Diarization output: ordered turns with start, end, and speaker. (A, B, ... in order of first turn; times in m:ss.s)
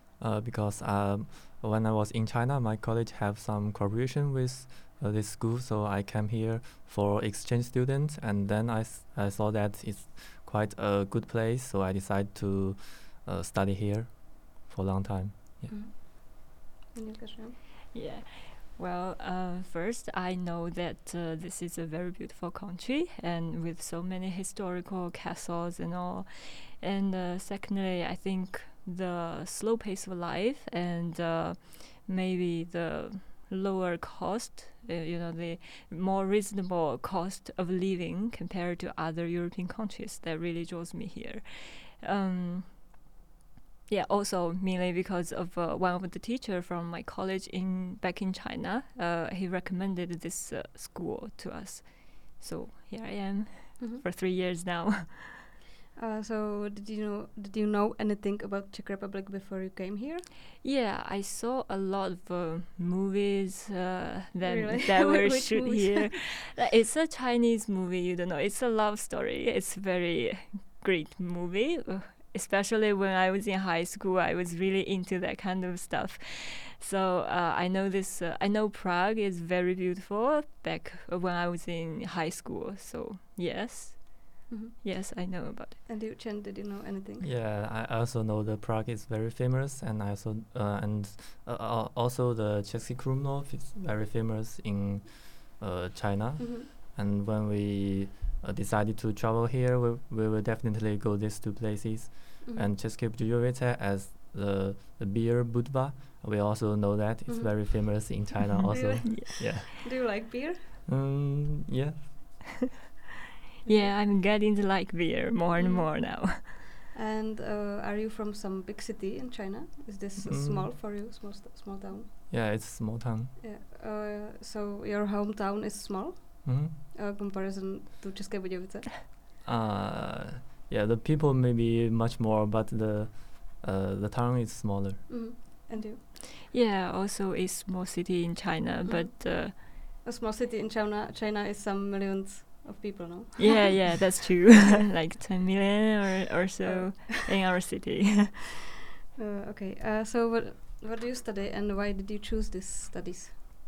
0:00.2-0:15.8 A
0:15.7-0:17.6 B
0:17.9-0:42.9 C
0:43.9-0:55.5 C
0:55.9-1:00.2 B
1:00.6-1:25.8 C
1:04.4-1:06.1 B
1:24.5-1:27.3 B
1:27.2-1:49.8 A
1:36.4-1:36.7 B
1:42.4-1:42.7 B
1:47.3-1:48.1 B
1:48.7-1:50.8 B
1:50.9-1:52.3 A
1:53.6-1:56.6 C
1:53.6-1:53.9 B
1:55.5-1:56.3 B
1:56.9-2:02.1 B
2:00.2-2:00.7 A
2:02.3-2:03.3 A
2:03.4-2:09.0 B
2:06.4-2:06.7 A
2:09.4-2:15.2 A
2:15.1-2:16.0 B
2:15.8-2:19.6 C
2:18.8-2:24.0 B
2:23.4-2:28.4 C
2:26.6-2:27.1 B
2:29.2-2:33.3 B